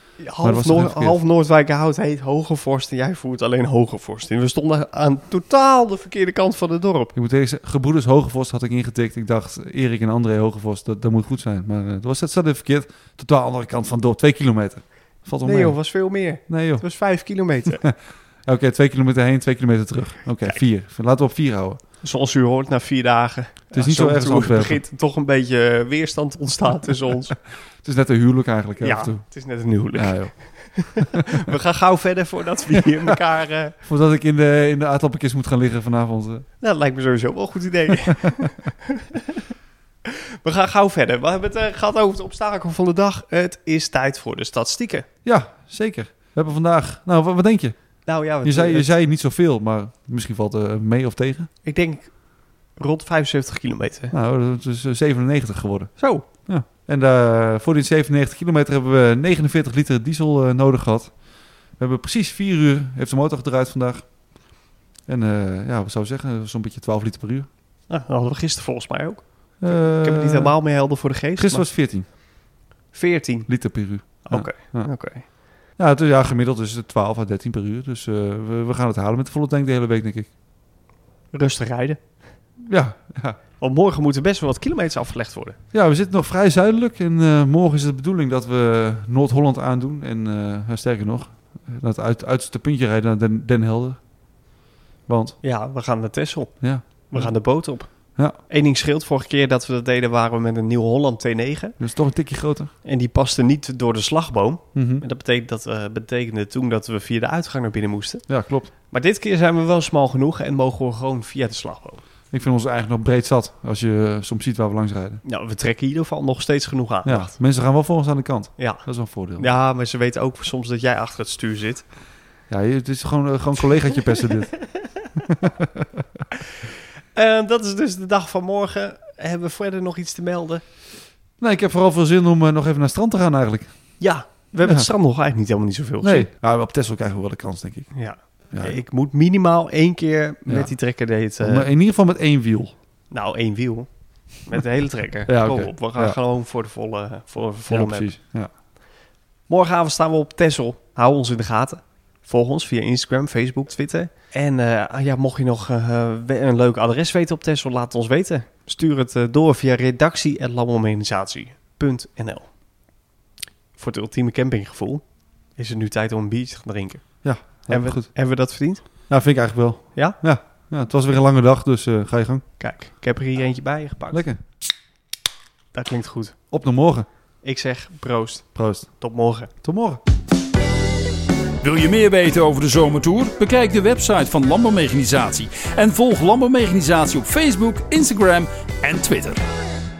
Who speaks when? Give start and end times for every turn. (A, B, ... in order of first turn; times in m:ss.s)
0:00.2-0:07.1 A
0:00.4-0:01.2 B
0:07.1-0:15.8 B
0:15.4-0:17.8 A
0:16.5-0:16.8 B
0:17.8-0:21.8 B
0:22.0-0:27.4 A
0:23.7-0:24.8 B
0:27.8-0:29.2 B
0:28.8-0:33.8 A
0:29.9-0:30.3 B
0:30.8-0:31.2 B
0:33.8-0:36.4 B
0:36.6-0:39.4 A
0:38.0-0:38.7 B
0:40.1-0:45.0 A
0:45.2-0:47.7 B
0:48.0-0:48.9 A
0:48.4-0:51.5 B
0:51.6-0:52.1 A
0:52.8-0:54.1 A
0:54.1-1:01.2 B
0:56.0-0:56.2 A
1:01.8-1:04.1 B
1:05.1-1:07.5 B
1:07.9-1:11.7 A
1:09.6-1:10.5 B
1:11.4-1:12.1 B
1:12.9-1:13.5 A
1:13.5-1:14.9 B
1:14.2-1:15.2 A
1:15.8-1:20.3 B
1:21.3-1:22.0 A
1:22.6-1:23.4 B
1:23.6-1:25.6 A
1:25.7-1:34.0 B
1:35.1-1:35.4 B
1:35.4-1:41.8 A
1:36.6-1:37.3 B
1:41.8-1:42.7 B
1:42.8-1:48.2 A
1:44.7-1:45.0 B
1:48.3-1:48.7 B
1:48.9-1:52.0 A
1:52.3-1:55.2 B
1:55.2-1:57.4 A
1:57.0-1:59.5 B
1:58.6-1:58.8 A
1:59.4-2:01.8 A
2:02.5-2:04.5 B
2:05.3-2:05.8 B
2:07.1-2:10.6 A
2:11.4-2:13.7 B
2:14.0-2:16.3 A
2:16.0-2:17.9 B
2:17.9-2:21.7 A
2:18.5-2:18.8 B
2:20.5-2:20.7 B
2:21.4-2:22.7 B
2:23.1-2:23.9 A
2:24.4-2:28.1 A
2:25.3-2:26.2 B
2:27.7-2:28.5 B
2:29.5-2:42.5 A
2:43.8-2:45.0 A
2:45.6-2:47.0 A
2:47.2-2:48.1 B
2:47.7-2:48.8 A
2:49.1-2:52.4 B
2:52.6-2:54.2 A
2:54.1-2:54.4 B
2:55.7-2:56.3 A
2:56.5-2:57.1 B
2:57.4-2:58.4 A
2:58.5-2:58.9 B
2:59.0-2:59.5 A
2:59.6-3:00.0 B
3:01.6-3:09.4 C